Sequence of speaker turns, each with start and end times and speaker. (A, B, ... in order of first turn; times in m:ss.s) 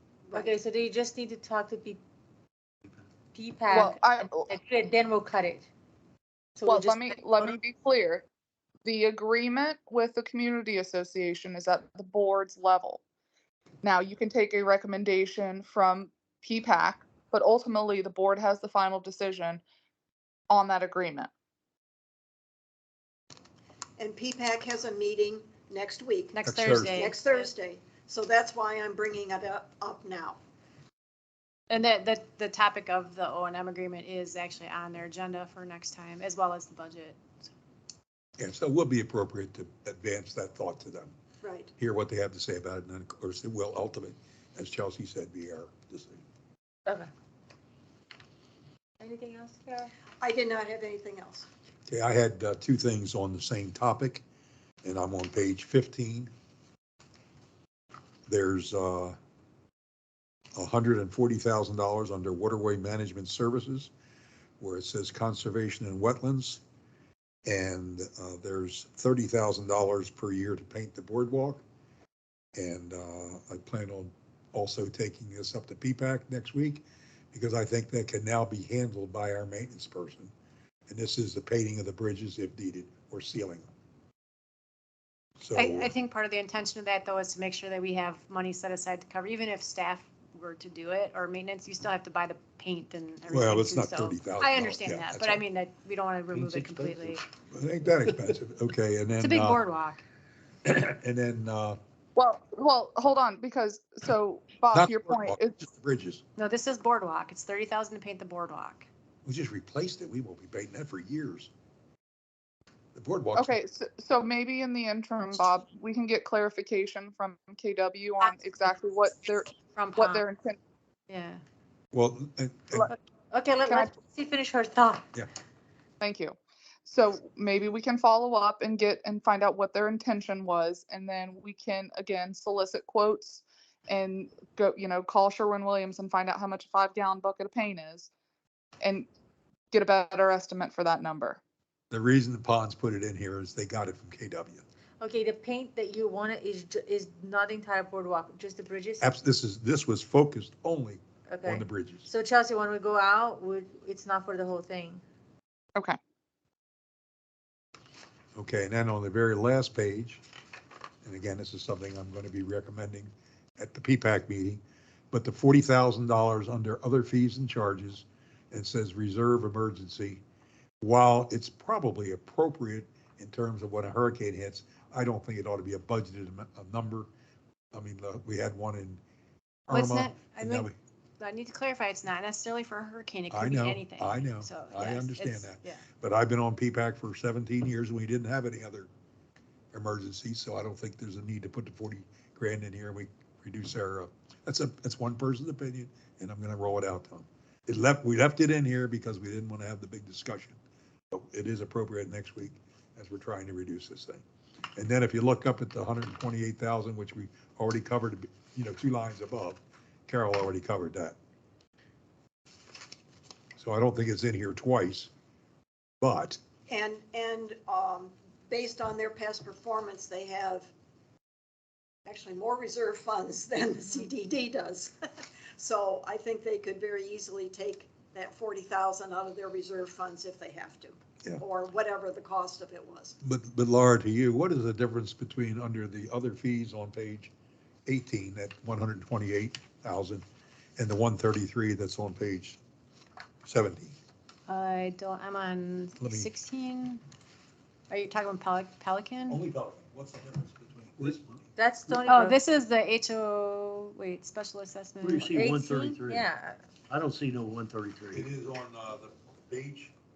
0:00.2-0:02.0 A
0:03.3-0:05.7 A
0:03.7-0:04.5 B
0:06.6-0:07.6 A
0:06.6-0:08.2 B
0:08.8-0:13.0 B
0:13.8-0:19.6 B
0:20.5-0:21.3 B
0:24.0-0:26.3 C
0:26.3-0:27.5 D
0:26.4-0:27.0 E
0:26.9-0:30.4 C
0:31.7-0:37.5 D
0:38.4-0:41.2 E
0:41.4-0:41.7 C
0:41.8-0:46.2 E
0:49.0-0:49.9 A
0:50.2-0:51.5 C
0:51.9-0:54.2 E
0:54.8-0:56.3 E
0:58.3-0:59.2 E
1:00.5-1:03.9 E
1:04.6-1:06.6 E
1:07.4-1:11.6 E
1:12.6-1:20.3 E
1:20.9-1:23.7 E
1:25.4-1:25.9 E
1:25.5-1:37.2 D
1:33.3-1:35.4 E
1:36.3-1:37.1 F
1:37.5-1:39.6 E
1:39.2-1:40.0 D
1:40.6-1:41.8 E
1:42.2-1:45.5 B
1:44.7-1:46.2 E
1:46.4-1:48.9 D
1:49.2-1:51.5 E
1:52.9-1:53.6 E
1:53.4-2:00.6 B
1:58.2-1:58.7 D
1:59.5-2:00.2 D
2:01.1-2:01.4 D
2:01.9-2:02.9 E
2:03.3-2:05.0 A
2:06.0-2:18.1 B
2:18.8-2:19.1 B
2:19.7-2:21.4 B
2:21.9-2:24.6 E
2:25.0-2:29.1 A
2:29.0-2:32.1 E
2:31.3-2:35.0 A
2:38.4-2:40.2 E
2:41.0-2:44.6 E
2:45.1-2:50.2 E
2:50.8-2:57.1 E
2:57.7-2:59.0 E
2:59.7-3:00.7 E
2:59.7-3:00.7 D
3:01.2-3:05.8 D
3:03.3-3:08.9 E
3:09.7-3:20.6 E
3:21.1-3:24.2 E
3:24.8-3:31.2 E
3:33.5-3:35.1 E
3:36.0-3:36.4 E
3:36.6-3:40.7 C
3:42.0-3:53.2 C
3:53.2-3:57.3 E
3:57.9-4:00.2 E
4:00.8-4:02.6 E
4:03.4-4:04.0 E
4:04.5-4:07.0 D
4:06.0-4:06.3 E
4:07.9-4:09.4 D
4:09.3-4:11.4 E
4:11.6-4:12.4 A
4:12.0-4:15.4 D
4:15.0-4:16.3 F
4:15.3-4:16.6 A
4:16.9-4:18.3 F
4:18.1-4:19.9 E